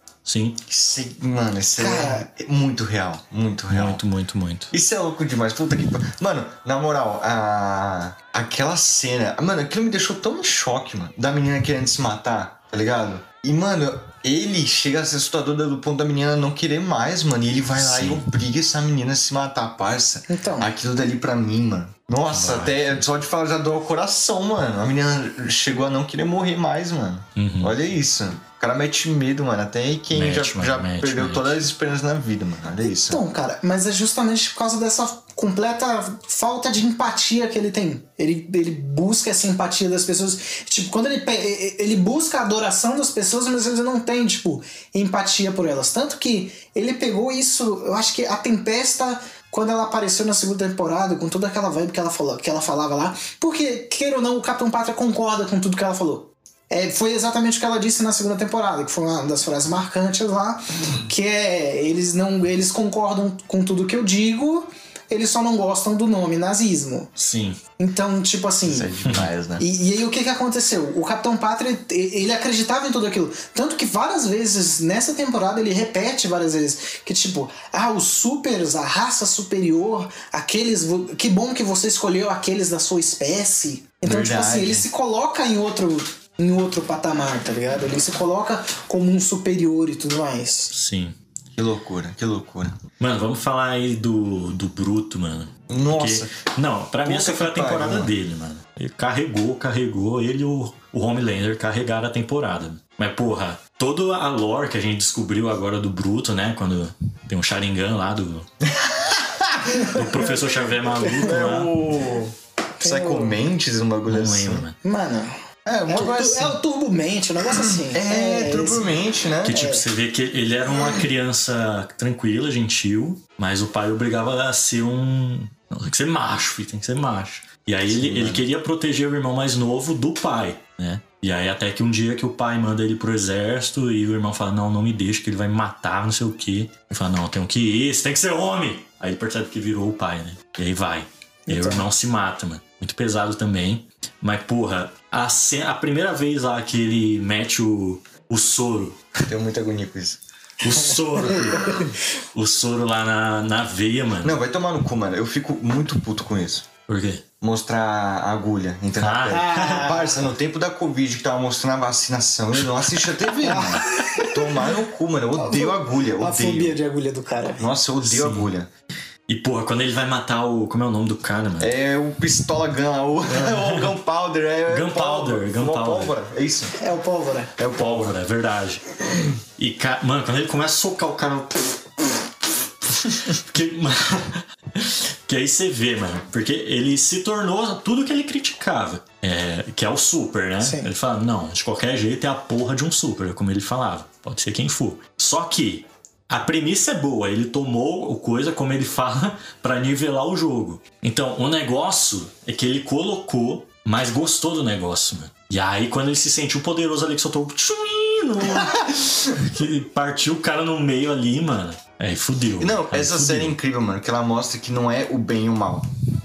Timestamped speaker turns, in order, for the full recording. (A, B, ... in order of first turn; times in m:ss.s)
0:00.2-0:00.6 A
0:00.7-0:04.0 B
0:01.8-0:02.3 C
0:03.7-0:04.7 A
0:04.7-0:33.2 B
0:17.8-0:18.2 A
0:20.3-0:20.7 C
0:22.3-0:23.0 A
0:27.4-0:27.7 A
0:30.1-0:31.6 A
0:32.8-1:07.1 C
1:07.2-1:07.6 A
1:07.8-1:08.9 C
1:08.6-1:09.6 B
1:09.6-1:30.7 C
1:24.0-1:24.9 B
1:30.7-1:31.1 A
1:31.6-1:32.8 B
1:33.0-1:48.5 A
1:35.7-1:36.3 B
1:37.0-1:38.1 B
1:48.6-1:49.9 B
1:49.7-1:51.4 C
1:49.9-1:51.7 A
1:51.2-1:54.7 B
1:52.8-1:53.4 C
1:54.1-1:54.7 A
1:54.8-1:55.3 C
1:55.6-1:56.6 B
1:55.9-1:58.9 C
1:57.5-1:59.6 B
1:59.4-2:29.0 A
1:59.5-1:59.8 C
2:07.9-2:08.4 B
2:21.5-2:21.8 C
2:29.2-2:30.2 B
2:30.6-2:34.3 A
2:31.3-2:31.9 C
2:34.2-2:36.7 B
2:36.9-2:37.2 A
2:37.4-2:46.8 B
2:39.0-2:39.8 A
2:39.3-2:40.1 C
2:43.4-2:44.6 C
2:45.3-2:47.6 C
2:47.6-2:48.7 B
2:48.0-2:48.5 A
2:49.3-2:51.7 A
2:51.6-2:56.8 B
2:53.3-2:53.9 A
2:54.7-2:56.1 A
2:56.8-2:57.5 C
2:57.6-2:58.1 B
2:57.7-2:59.0 A
2:59.6-3:02.1 A
3:03.0-3:33.5 A
3:10.6-3:10.9 C
3:32.6-3:35.9 B